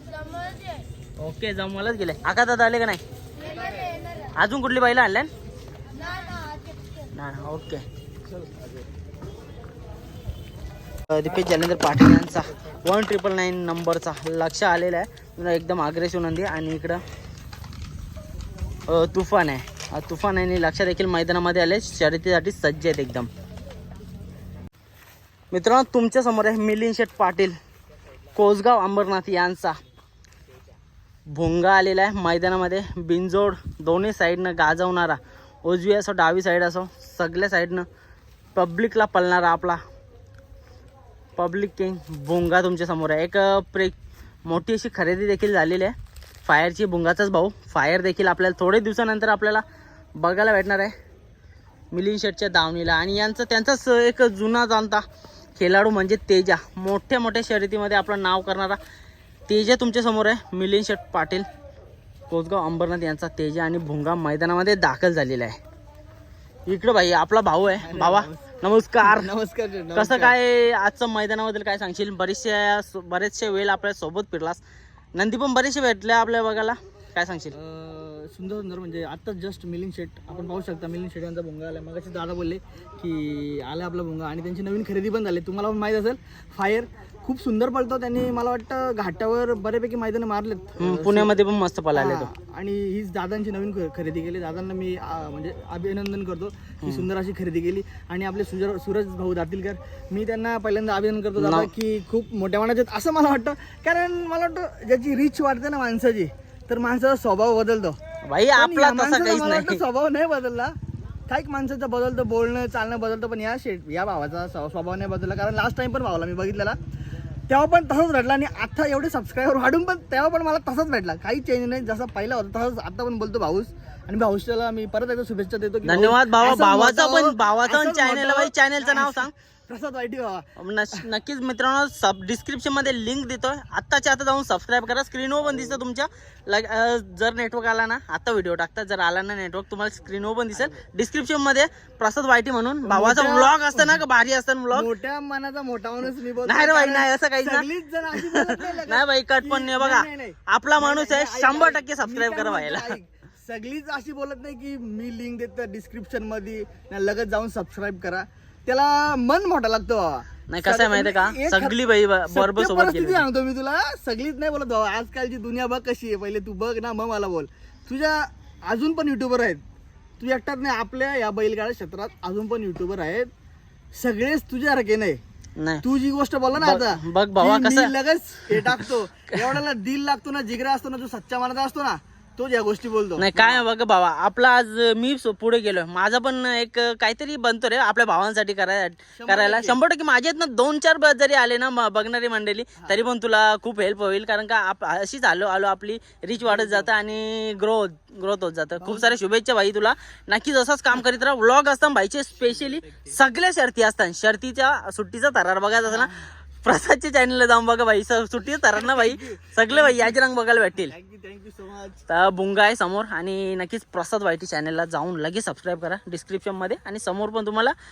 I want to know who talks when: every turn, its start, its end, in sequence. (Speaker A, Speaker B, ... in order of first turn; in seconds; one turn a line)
Speaker A: 1.2-3.0
Speaker A: 4.3-5.3
Speaker A: 7.1-7.8
Speaker A: 11.1-17.0
Speaker A: 18.9-23.3
Speaker A: 25.5-27.6
Speaker A: 28.4-29.8
Speaker A: 31.3-37.9
Speaker A: 38.5-39.8
Speaker A: 41.4-49.6
Speaker A: 50.2-50.9
Speaker A: 51.9-55.0
Speaker A: 55.6-58.8
Speaker A: 59.5-61.5
Speaker A: 62.3-65.6
Speaker A: 66.7-69.3
Speaker B: 67.8-68.4
Speaker B: 69.0-70.3
Speaker A: 70.0-74.6
Speaker A: 75.2-77.5
Speaker B: 77.5-91.3
Speaker A: 90.8-92.3
Speaker B: 91.9-108.0
Speaker A: 101.4-101.7
Speaker A: 108.3-109.8
Speaker B: 108.6-110.8
Speaker B: 111.3-116.8
Speaker B: 117.5-131.0
Speaker A: 125.8-129.3
Speaker A: 130.6-144.9
Speaker B: 142.8-144.0
Speaker B: 144.7-169.6
Speaker A: 146.4-152.9
Speaker A: 160.5-163.2
Speaker B: 170.2-173.3
Speaker B: 174.0-175.2
Speaker A: 175.6-175.8
Speaker B: 175.8-183.6
Speaker A: 176.6-177.9
Speaker A: 183.2-206.1
Speaker B: 189.2-189.8
Speaker B: 196.5-196.9
Speaker B: 198.8-199.1
Speaker B: 205.9-206.2
Speaker A: 206.6-210.9
Speaker B: 208.7-210.2
Speaker B: 210.8-212.0
Speaker A: 212.1-217.8